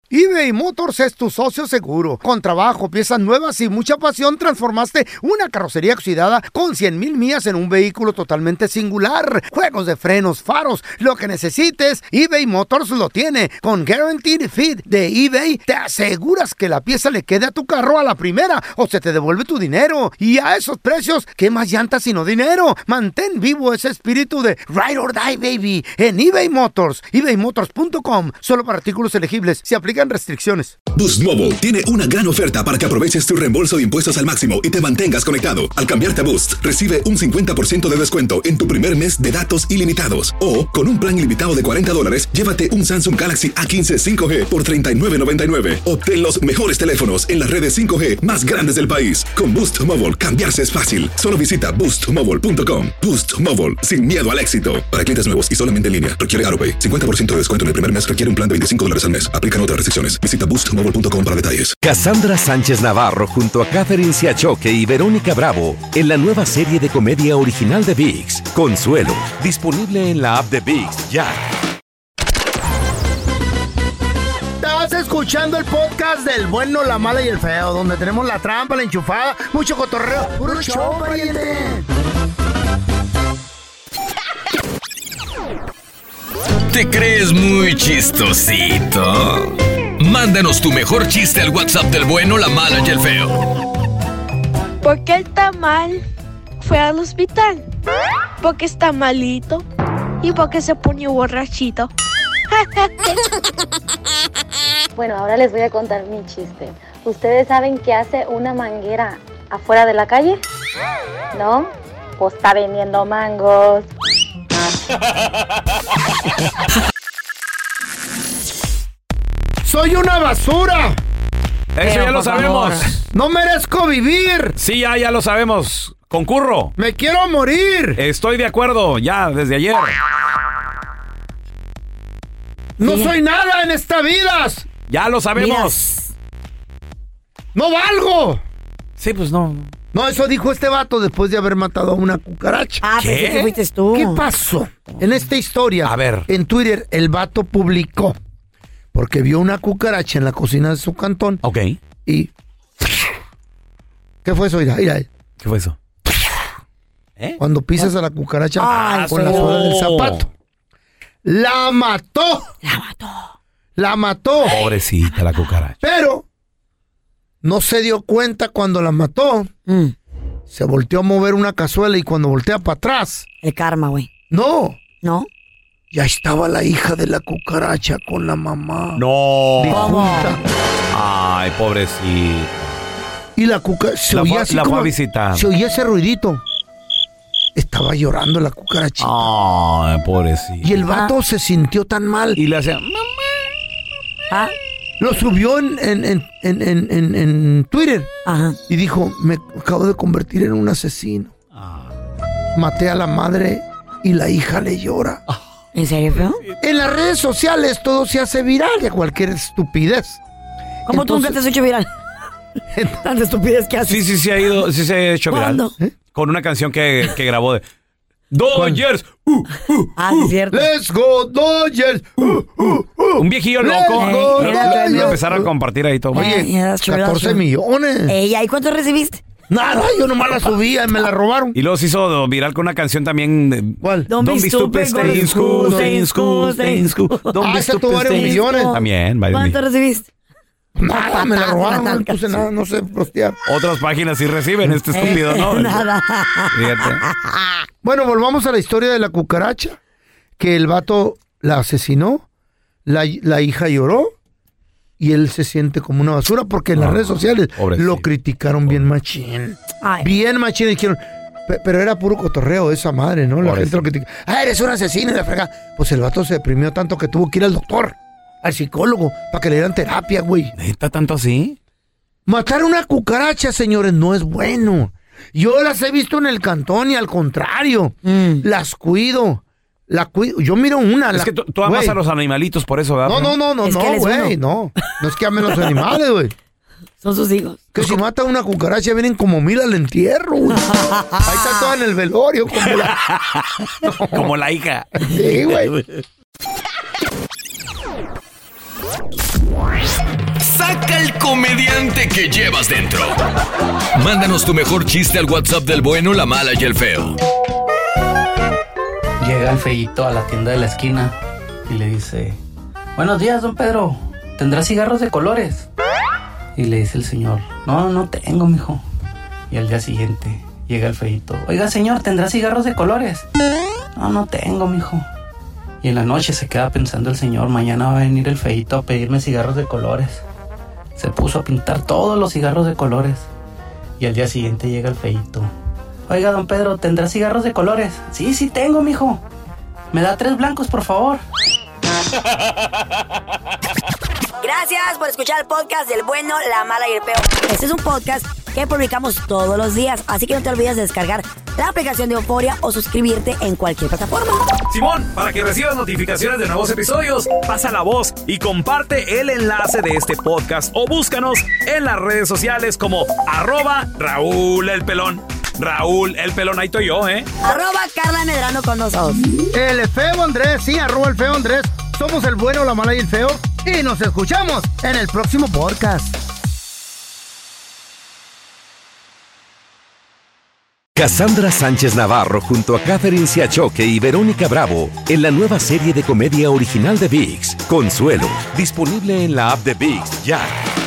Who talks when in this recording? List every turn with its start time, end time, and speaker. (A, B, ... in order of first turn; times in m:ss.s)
0:00.1-0:30.8 A
0:31.0-1:01.8 B
1:01.8-1:11.4 C
1:14.6-1:21.9 A
1:20.5-1:21.5 D
1:26.7-1:33.4 E
1:34.8-1:36.0 F
1:36.6-1:37.6 F
1:38.4-1:39.6 F
1:40.2-1:41.9 F
1:45.0-1:50.4 G
1:51.3-1:53.8 G
1:59.6-2:01.0 A
2:01.8-2:02.9 H
2:01.8-2:03.0 D
2:03.1-2:04.6 A
2:04.6-2:06.7 H
2:06.8-2:08.0 A
2:08.0-2:10.0 H
2:12.8-2:14.7 A
2:12.8-2:13.1 D
2:14.9-2:15.8 H
2:15.4-2:16.1 D
2:17.5-2:18.4 A
2:19.0-2:19.7 H
2:19.9-2:22.8 A
2:22.8-2:24.2 D
2:23.0-2:23.5 H
2:23.9-2:28.2 A
2:25.8-2:26.3 H
2:28.9-2:31.4 A
2:31.4-2:31.8 H
2:34.2-2:35.1 A
2:35.4-2:35.8 H
2:37.4-2:40.3 A
2:38.6-2:39.6 D
2:38.6-2:40.3 H
2:41.2-2:42.5 A
2:42.6-2:43.3 D
2:43.8-2:44.6 A
2:44.5-2:45.8 H
2:45.1-2:45.5 D
2:45.8-2:46.3 A
2:47.4-2:49.5 A
2:49.7-2:49.9 D
2:50.5-2:53.3 A
2:53.4-2:54.1 D
2:54.3-2:54.8 A
2:55.0-2:55.3 D
2:55.9-2:59.0 A
2:59.0-3:00.0 H
2:59.6-3:00.4 A
2:59.7-3:00.4 D
3:00.9-3:02.8 H
3:03.4-3:06.4 A
3:04.1-3:05.5 H
3:07.6-3:09.3 A
3:09.0-3:10.8 H
3:10.6-3:12.4 A
3:12.4-3:13.4 H
3:15.0-3:18.1 A
3:18.3-3:18.6 D
3:18.7-3:21.3 A
3:22.6-3:25.2 A
3:25.7-3:26.4 D
3:26.6-3:30.2 A
3:30.9-3:31.9 D
3:30.9-3:31.4 A
3:33.0-3:34.0 D
3:33.8-3:37.6 H
3:35.3-3:35.7 D
3:38.3-3:40.3 H
3:38.5-3:38.8 A
3:40.0-3:40.7 D
3:40.5-3:45.5 A
3:43.2-3:46.3 H
3:44.0-3:45.2 D
3:46.1-3:47.4 D
3:46.1-3:48.1 A
3:48.1-3:49.2 D
3:49.5-3:51.6 A
3:51.5-3:59.6 H
3:53.8-3:54.1 A
3:54.1-3:57.2 D
3:55.0-3:56.0 A
3:57.4-3:58.8 A
3:58.1-4:00.1 D
4:00.8-4:03.4 A
4:00.9-4:02.4 D
4:03.5-4:05.8 H
4:04.9-4:07.6 D
4:06.5-4:07.0 H
4:07.8-4:09.8 A
4:10.4-4:12.2 A
4:12.9-4:14.1 A
4:15.0-4:30.5 A
4:16.8-4:18.1 H
4:19.8-4:20.1 D
4:23.4-4:23.8 H
4:30.6-4:31.6 H
4:32.3-4:42.0 A
4:38.0-4:38.4 D
4:41.1-4:43.4 H
4:43.0-4:46.3 A
4:43.6-4:44.4 D
4:47.0-4:47.7 D
4:47.7-4:50.7 A
4:50.5-4:51.7 D
4:51.2-4:53.0 A
4:52.7-4:55.9 H
4:53.8-4:54.3 A
4:55.0-4:55.7 A
5:00.4-5:03.2 E
5:04.0-5:07.2 E
5:09.2-5:11.1 I
5:11.7-5:12.4 I
5:13.0-5:15.7 I
5:16.6-5:18.8 I
5:19.5-5:23.2 I
5:24.0-5:25.0 I
5:25.8-5:30.2 I
5:31.0-5:33.3 I
5:34.0-5:35.5 I
5:36.1-5:39.2 I
5:39.9-5:41.2 I
5:44.4-5:54.5 D
5:54.7-6:07.3 H
6:07.4-6:09.2 D
6:09.5-6:16.2 A
6:21.0-6:30.5 C